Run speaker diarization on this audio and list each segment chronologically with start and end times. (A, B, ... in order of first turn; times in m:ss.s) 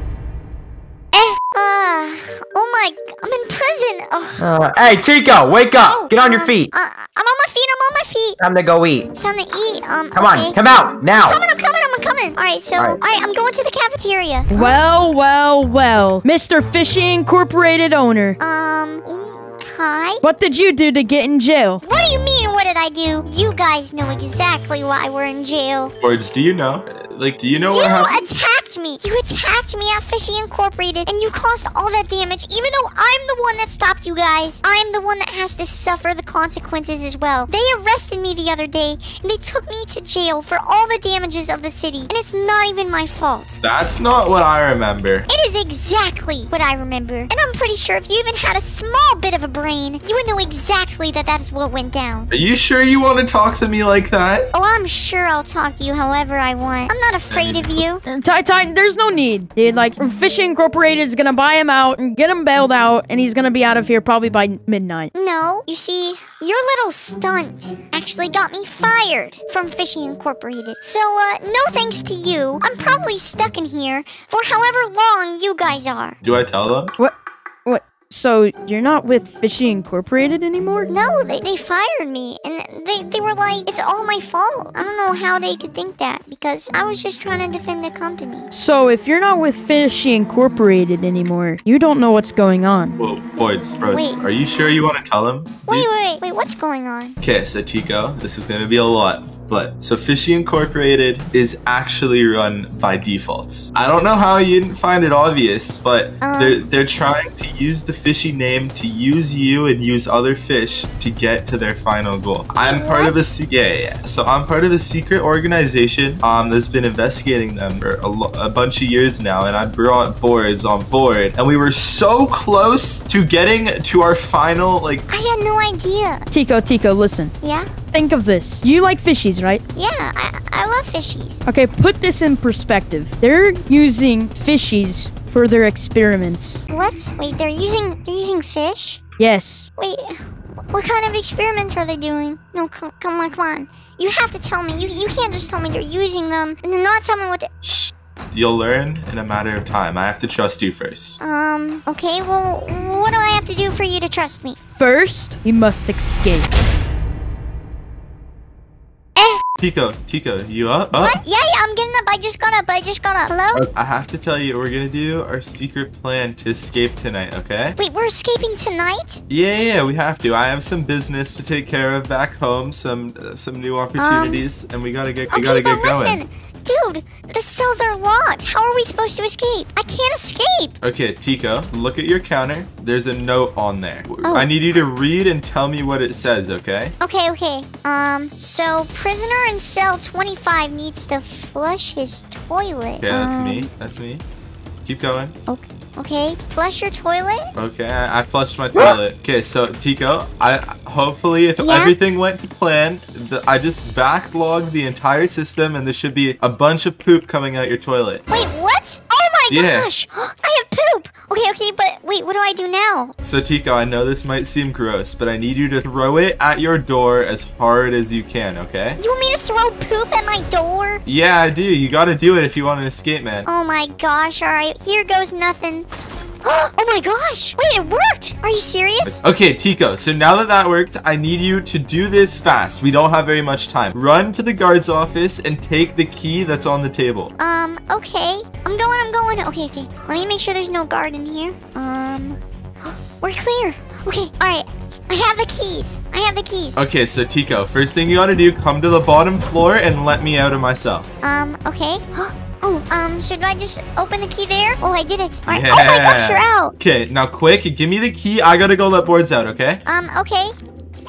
0:01.1-0:04.5 A
0:04.4-0:06.7 B
0:05.8-0:08.4 A
0:08.4-0:09.1 B
0:09.1-0:10.6 A
0:10.1-0:11.4 B
0:11.2-0:14.8 A
0:14.5-0:18.4 C
0:18.4-0:20.2 A
0:20.2-0:21.8 C
0:21.8-0:25.9 A
0:26.0-0:28.2 D
0:27.6-0:43.6 A
0:43.6-0:45.3 D
0:45.3-0:52.3 A
0:52.3-0:54.5 D
0:54.5-0:58.0 A
0:57.3-0:57.8 D
0:58.1-1:05.1 C
1:05.1-1:16.2 A
1:16.2-1:16.9 D
1:17.7-1:20.9 C
1:20.9-1:28.5 A
1:28.5-1:33.0 C
1:33.0-1:35.9 D
1:33.9-1:34.2 A
1:35.7-1:37.2 A
1:37.2-2:05.1 D
1:46.2-1:46.6 A
1:52.6-1:53.3 A
2:05.1-2:06.2 A
2:06.3-2:07.3 C
2:07.4-2:07.7 A
2:07.9-2:09.6 C
2:09.8-2:11.4 A
2:11.5-2:16.6 C
2:16.7-2:19.0 A
2:19.2-2:19.7 C
2:19.8-2:27.5 A
2:27.6-2:31.2 D
2:31.2-2:34.6 A
2:34.8-2:36.5 C
2:39.6-2:41.2 D
2:41.0-2:43.7 A
2:43.5-2:47.8 D
2:47.8-2:49.2 A
2:49.3-2:56.2 D
2:54.0-2:54.4 A
2:55.3-3:00.8 A
3:00.8-3:07.0 D
3:07.0-3:13.7 A
3:13.0-3:14.2 D
3:14.8-3:15.4 D
3:15.5-3:17.5 A
3:17.6-3:28.2 D
3:21.6-3:22.0 A
3:28.3-3:33.1 A
3:29.5-3:29.9 D
3:33.2-3:39.0 D
3:39.0-3:41.0 A
3:41.0-3:43.5 D
3:43.5-3:45.9 A
3:46.4-3:49.2 A
3:49.0-3:57.3 D
3:57.4-4:06.8 A
4:06.8-4:11.1 D
4:11.2-4:16.7 A
4:15.5-4:19.8 D
4:19.9-4:20.6 A